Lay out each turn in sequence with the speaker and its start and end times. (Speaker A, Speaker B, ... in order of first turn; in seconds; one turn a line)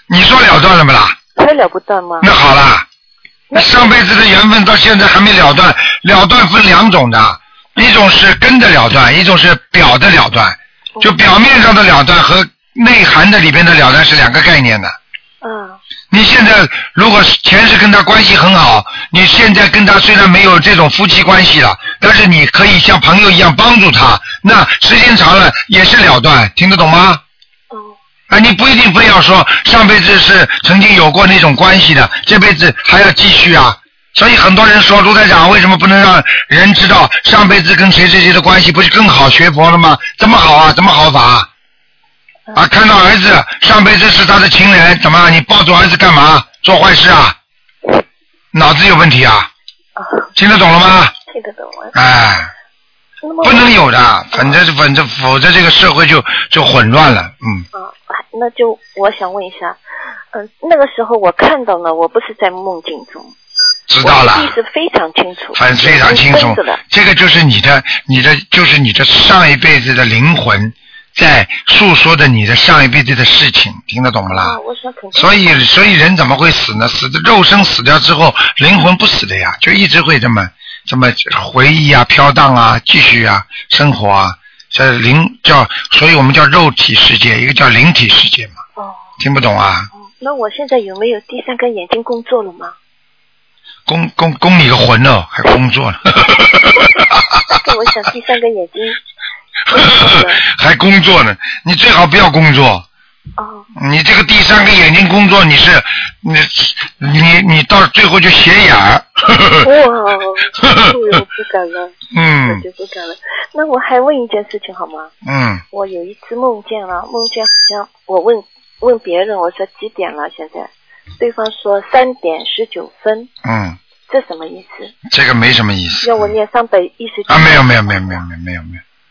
Speaker A: 0.1-1.2
Speaker B: 1.4-2.3
Speaker A: 2.2-2.9
Speaker B: 3.5-3.9
Speaker A: 3.5-14.9
Speaker B: 15.4-15.8
Speaker A: 16.1-27.2
Speaker A: 28.3-41.5
Speaker A: 42.5-47.4
Speaker A: 48.5-49.5
Speaker B: 50.0-50.3
Speaker A: 50.4-51.1
Speaker B: 51.3-52.0
Speaker A: 52.0-52.5
Speaker B: 53.2-53.8
Speaker A: 53.4-57.6
Speaker B: 54.3-54.6
Speaker B: 57.8-59.8
Speaker B: 60.3-63.3
Speaker A: 63.9-64.5
Speaker B: 64.0-66.8
Speaker A: 65.5-74.6
Speaker B: 74.3-75.6
Speaker A: 75.2-88.6
Speaker B: 88.8-89.0
Speaker A: 89.2-89.9
Speaker B: 90.0-92.8
Speaker A: 93.9-97.1
Speaker B: 97.5-99.0
Speaker A: 99.7-102.9
Speaker B: 99.7-100.4
Speaker B: 103.4-103.7
Speaker A: 103.8-109.7
Speaker B: 109.6-115.1
Speaker A: 110.6-110.9
Speaker A: 112.1-112.6
Speaker A: 115.2-115.6
Speaker B: 115.7-123.3
Speaker A: 123.4-123.8
Speaker B: 124.1-125.0
Speaker A: 125.1-126.3
Speaker B: 126.0-128.2
Speaker A: 127.3-128.8